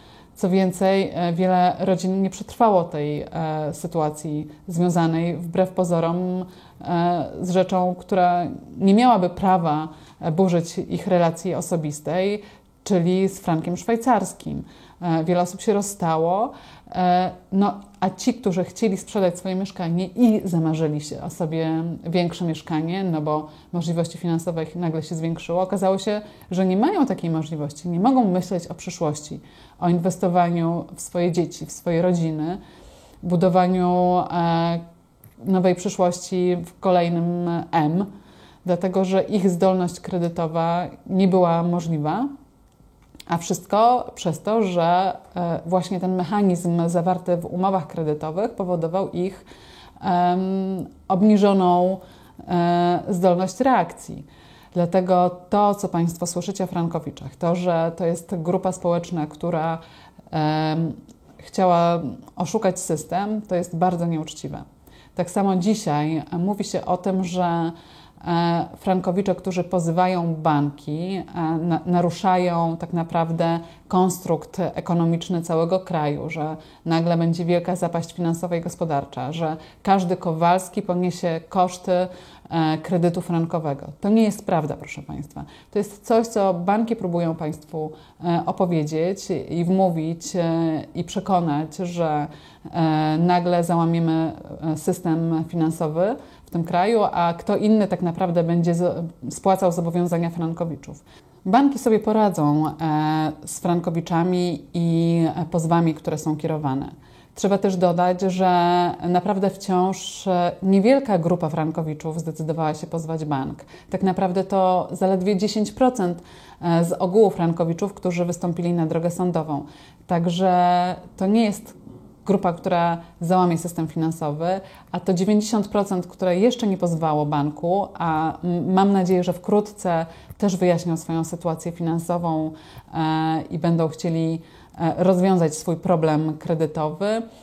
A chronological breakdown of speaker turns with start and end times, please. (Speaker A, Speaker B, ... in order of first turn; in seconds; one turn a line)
Speaker A: 0.3-32.6
Speaker A: 33.2-34.8
Speaker A: 35.4-38.1
Speaker A: 38.6-42.3
Speaker A: 43.3-49.4
Speaker A: 50.0-59.8
Speaker A: 60.3-64.6
Speaker A: 65.1-137.2